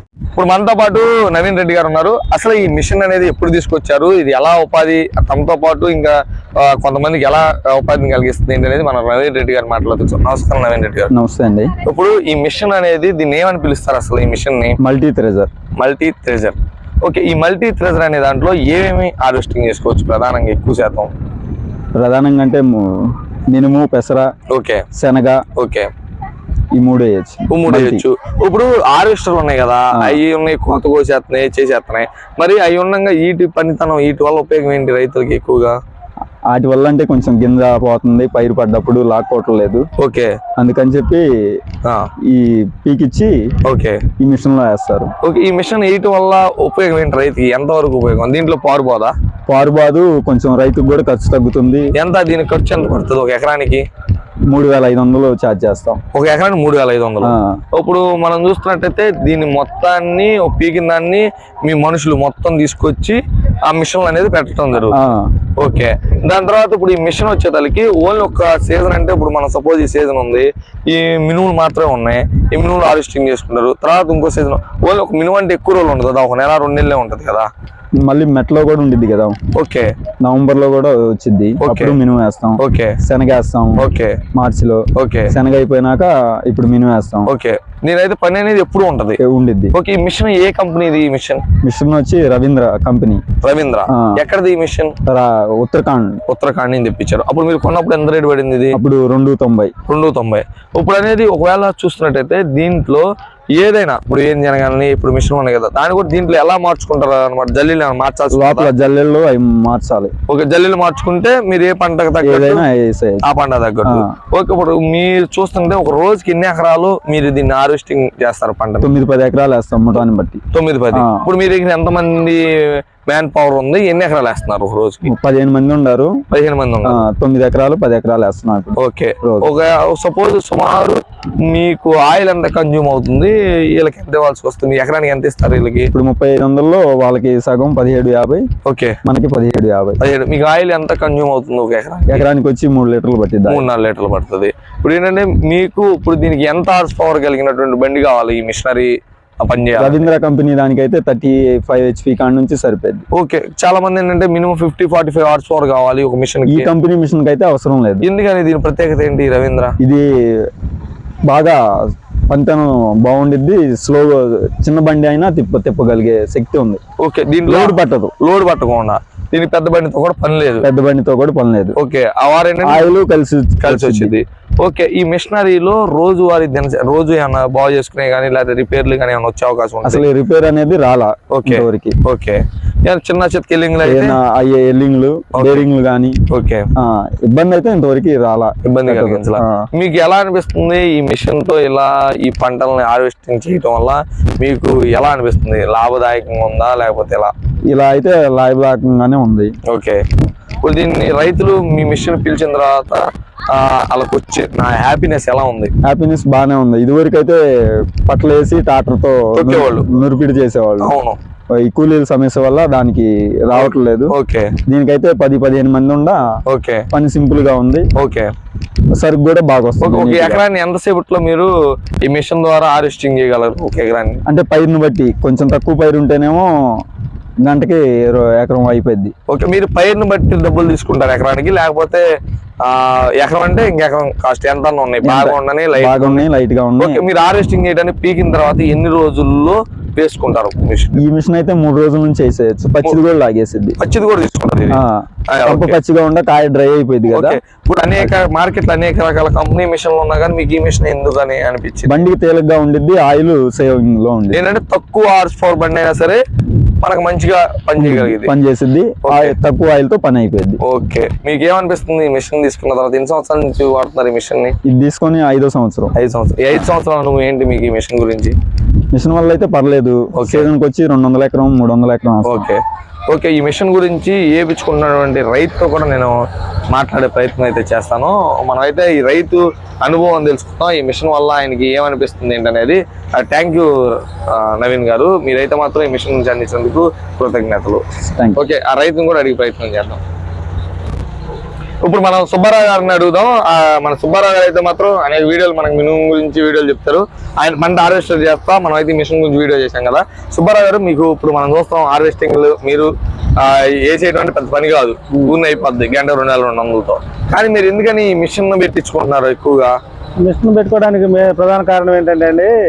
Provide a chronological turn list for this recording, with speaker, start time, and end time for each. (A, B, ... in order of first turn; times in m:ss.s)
0:00.4-0:11.1 A
0:11.1-0:11.7 B
0:11.9-0:14.8 A
0:14.8-0:15.5 B
0:15.8-0:21.1 A
0:22.0-0:24.3 B
0:24.5-0:24.8 A
0:25.0-0:25.4 B
0:25.6-0:25.9 A
0:26.7-0:28.0 B
0:27.5-0:35.7 A
0:36.5-0:39.8 B
0:40.0-0:40.3 A
0:40.6-0:41.2 B
0:41.8-0:42.1 A
0:42.3-0:43.4 B
0:43.6-0:44.0 A
0:44.2-0:45.1 B
0:45.2-0:49.1 A
0:49.5-0:51.9 B
0:52.0-0:53.8 A
0:54.5-0:56.0 B
0:56.1-1:05.0 A
0:57.2-0:57.6 B
1:04.8-1:05.3 B
1:05.6-1:17.5 A
1:18.0-1:19.4 B
1:19.5-1:19.9 A
1:20.2-1:27.3 B
1:21.6-1:22.0 A
1:22.6-1:23.0 A
1:23.8-1:24.2 A
1:25.0-1:25.3 A
1:27.3-1:29.2 A
1:29.2-1:29.8 B
1:29.7-1:31.4 A
1:31.6-1:33.2 B
1:33.4-1:34.9 A
1:35.1-1:36.2 B
1:36.3-1:38.8 A
1:38.7-1:39.7 B
1:39.9-1:43.0 A
1:43.6-1:48.7 A
1:48.3-1:50.1 B
1:50.3-1:52.6 A
1:52.2-1:53.2 B
1:53.2-1:58.9 A
1:53.8-1:54.1 B
1:58.8-2:01.3 B
2:00.5-2:05.1 A
2:05.0-2:06.2 B
2:06.3-2:07.0 A
2:06.8-2:09.5 B
2:08.8-2:15.9 A
2:15.9-2:18.4 B
2:18.7-2:19.0 A
2:19.0-2:20.0 B
2:20.0-2:22.3 A
2:22.1-2:23.7 B
2:23.5-2:30.0 A
2:29.8-2:33.0 B
2:33.1-2:36.7 A
2:36.5-2:38.1 B
2:38.0-2:39.8 A
2:39.8-2:40.5 B
2:41.3-2:41.6 B
2:42.3-2:46.8 B
2:47.0-2:50.7 A
2:47.4-2:48.1 B
2:50.6-2:51.8 B
2:51.8-2:52.9 A
2:52.6-2:54.2 B
2:53.6-3:00.0 A
2:59.8-3:02.0 B
3:01.3-3:04.2 A
3:03.8-3:06.2 B
3:05.3-3:05.6 A
3:06.3-3:06.7 A
3:06.8-3:09.7 B
3:08.6-3:17.3 A
3:17.7-3:19.5 B
3:19.7-3:20.0 A
3:20.6-3:25.7 A
3:25.8-3:27.4 B
3:28.1-3:30.9 B
3:29.3-3:29.9 A
3:30.8-3:31.2 A
3:31.5-3:34.1 B
3:33.5-3:34.5 A
3:34.7-3:36.2 B
3:36.5-3:36.9 A
3:36.9-3:37.9 B
3:38.0-3:38.3 A
3:39.0-3:40.4 B
3:39.8-3:41.5 A
3:42.0-3:44.2 A
3:44.3-3:46.5 B
3:47.4-3:49.1 B
3:49.3-3:52.0 A
3:52.6-3:56.3 A
3:55.0-3:57.1 B
3:56.8-4:01.0 A
4:01.0-4:03.8 B
4:03.8-4:04.8 A
4:04.7-4:07.4 B
4:05.3-4:05.8 A
4:07.1-4:12.0 A
4:11.9-4:14.4 B
4:14.3-4:16.2 A
4:16.8-4:18.3 A
4:17.8-4:20.6 B
4:19.0-4:19.4 A
4:20.6-4:24.6 A
4:24.6-4:25.9 B
4:25.9-4:28.4 A
4:28.9-4:32.5 B
4:30.2-4:30.5 A
4:32.2-4:36.2 A
4:36.7-4:47.8 A
4:48.0-4:48.4 B
4:48.4-4:50.0 A
4:51.8-5:09.7 A
5:10.2-5:12.5 C